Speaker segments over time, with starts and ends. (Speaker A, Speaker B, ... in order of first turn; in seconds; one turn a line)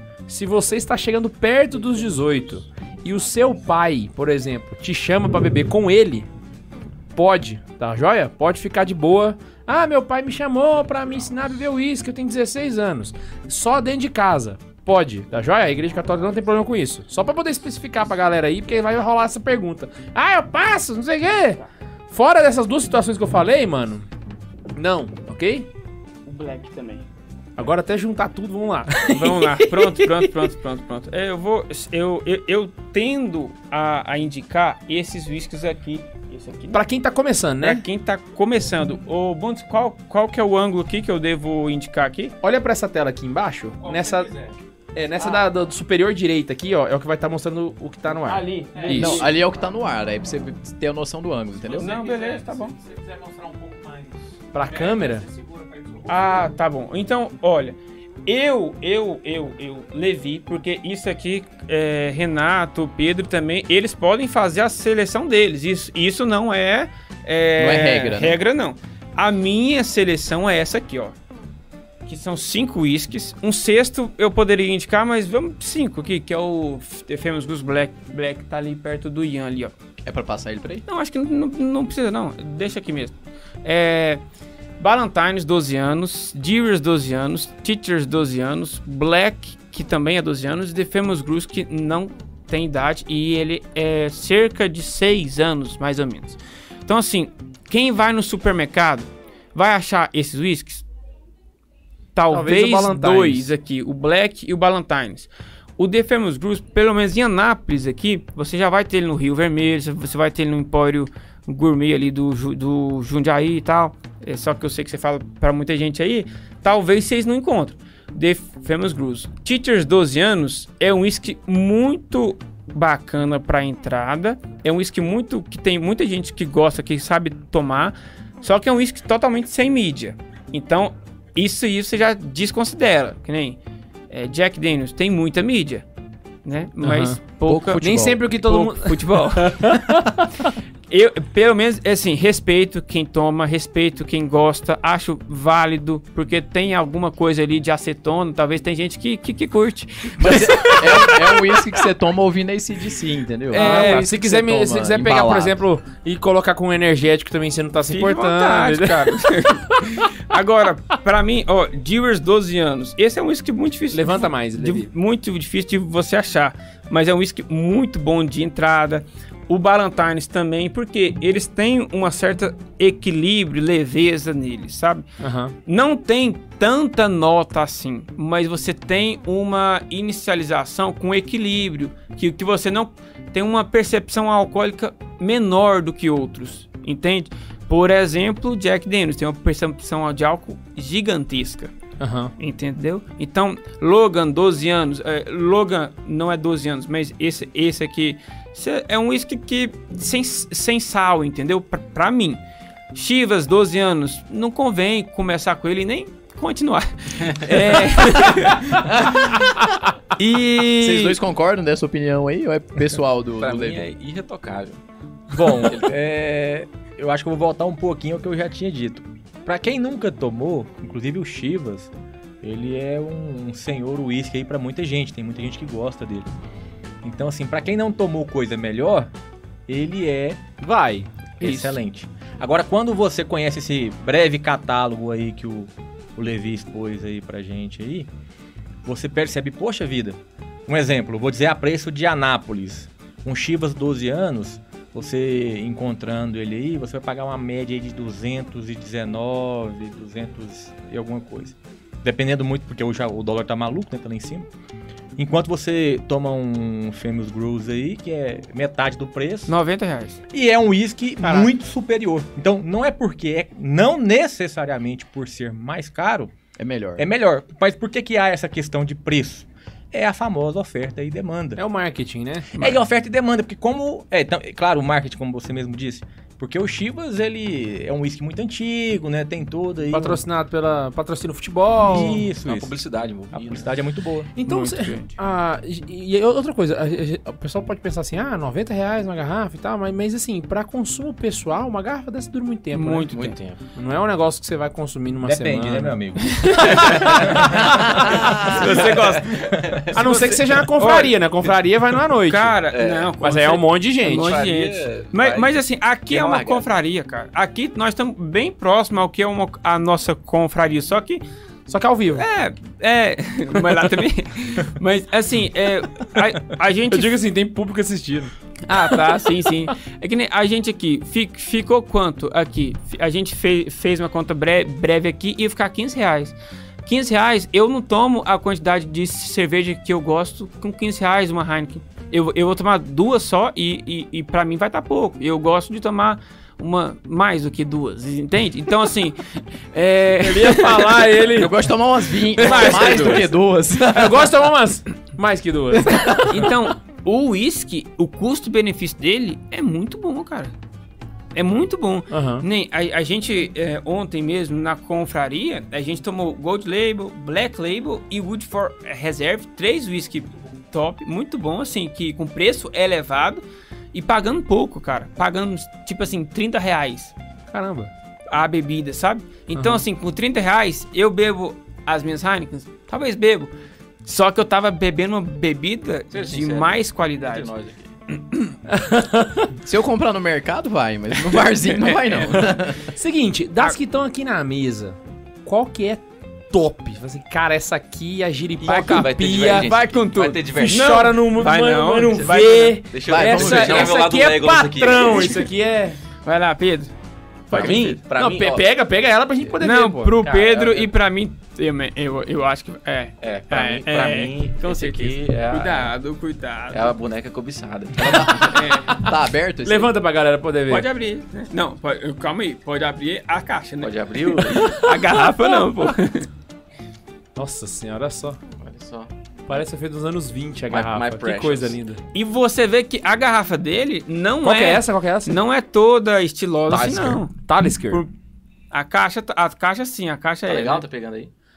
Speaker A: 0.3-6.3
Speaker A: 7.1-24.1
Speaker B: 15.8-16.4
Speaker A: 24.7-25.7
Speaker C: 26.2-27.1
Speaker A: 27.6-30.3
Speaker C: 29.1-36.8
Speaker A: 36.7-37.8
Speaker C: 37.6-42.3
Speaker A: 42.4-44.3
Speaker B: 43.8-44.6
Speaker A: 44.9-49.2
Speaker C: 48.2-49.3
Speaker B: 48.7-49.3
Speaker D: 48.9-51.9
Speaker B: 51.6-56.5
Speaker C: 51.8-52.7
Speaker A: 54.5-55.2
Speaker C: 56.1-71.1
Speaker D: 67.6-68.4
Speaker C: 72.0-79.7
Speaker D: 80.0-80.8
Speaker C: 80.8-84.2
Speaker C: 84.8-100.8
Speaker C: 102.1-133.6
Speaker A: 102.3-103.5
Speaker C: 134.1-135.8
Speaker C: 136.4-140.0
Speaker A: 136.8-137.2
Speaker D: 137.5-138.2
Speaker A: 137.8-140.5
Speaker C: 140.9-151.3
Speaker D: 150.2-155.6
Speaker C: 153.5-154.1
Speaker A: 153.5-160.0
Speaker C: 157.9-175.1
Speaker A: 163.9-164.9
Speaker A: 175.2-175.5
Speaker C: 175.7-191.7
Speaker A: 192.0-192.3
Speaker C: 192.4-202.4
Speaker C: 202.9-209.6
Speaker E: 207.2-207.5
Speaker C: 210.2-211.2
Speaker D: 210.7-213.9
Speaker E: 213.4-214.8
Speaker F: 215.3-221.9
Speaker E: 215.6-215.9
Speaker F: 222.4-226.3
Speaker F: 227.0-229.1
Speaker F: 229.7-230.4
Speaker A: 230.6-231.1
Speaker C: 231.4-231.8
Speaker F: 231.4-238.1
Speaker F: 238.8-254.5
Speaker F: 255.2-259.5
Speaker C: 259.5-260.2
Speaker F: 260.3-266.3
Speaker A: 261.2-261.5
Speaker D: 266.6-267.1
Speaker F: 267.0-271.6
Speaker A: 271.6-272.8
Speaker F: 272.6-280.2
Speaker A: 279.9-282.2
Speaker F: 281.8-282.8
Speaker E: 282.4-283.7
Speaker F: 283.3-284.3
Speaker A: 284.3-293.2
Speaker C: 284.4-285.1
Speaker C: 292.7-293.4
Speaker E: 293.1-293.6
Speaker A: 293.8-298.2
Speaker F: 295.2-299.8
Speaker C: 296.4-296.8
Speaker E: 296.8-297.2
Speaker C: 297.9-299.5
Speaker E: 298.0-300.9
Speaker A: 299.9-302.6
Speaker C: 300.8-301.2
Speaker C: 302.2-311.2
Speaker E: 302.7-303.1
Speaker A: 303.2-304.4
Speaker E: 304.1-305.5
Speaker E: 306.1-306.6
Speaker A: 311.7-312.2
Speaker C: 312.1-317.1
Speaker A: 316.9-318.7
Speaker C: 318.6-341.2
Speaker A: 340.2-341.6
Speaker D: 341.3-344.3
Speaker C: 342.4-343.3
Speaker A: 342.4-343.3
Speaker A: 343.8-346.5
Speaker C: 346.1-350.5
Speaker C: 351.3-367.1
Speaker A: 352.1-352.4
Speaker A: 367.5-367.9
Speaker C: 368.3-373.5
Speaker A: 369.5-369.8
Speaker C: 374.0-377.5
Speaker E: 376.1-377.9
Speaker A: 378.7-379.5
Speaker D: 379.6-382.9
Speaker C: 381.3-382.6
Speaker A: 382.8-389.7
Speaker E: 388.6-391.1
Speaker C: 389.4-392.8
Speaker A: 390.5-396.0
Speaker E: 392.9-395.5
Speaker D: 393.0-394.0
Speaker C: 396.2-396.9
Speaker C: 397.5-398.0
Speaker E: 397.5-398.7
Speaker A: 397.5-400.2
Speaker C: 399.6-407.0
Speaker E: 400.3-400.9
Speaker E: 403.2-405.9
Speaker E: 406.7-408.6
Speaker D: 408.0-409.9
Speaker C: 408.5-409.0
Speaker A: 409.6-410.9
Speaker C: 410.7-416.3
Speaker E: 413.8-414.8
Speaker A: 414.5-415.4
Speaker A: 417.4-418.4
Speaker E: 418.6-419.6
Speaker A: 419.5-422.0
Speaker E: 420.7-421.8
Speaker C: 422.1-428.1
Speaker A: 424.4-425.3
Speaker A: 426.7-428.0
Speaker C: 428.7-430.8
Speaker E: 430.5-431.3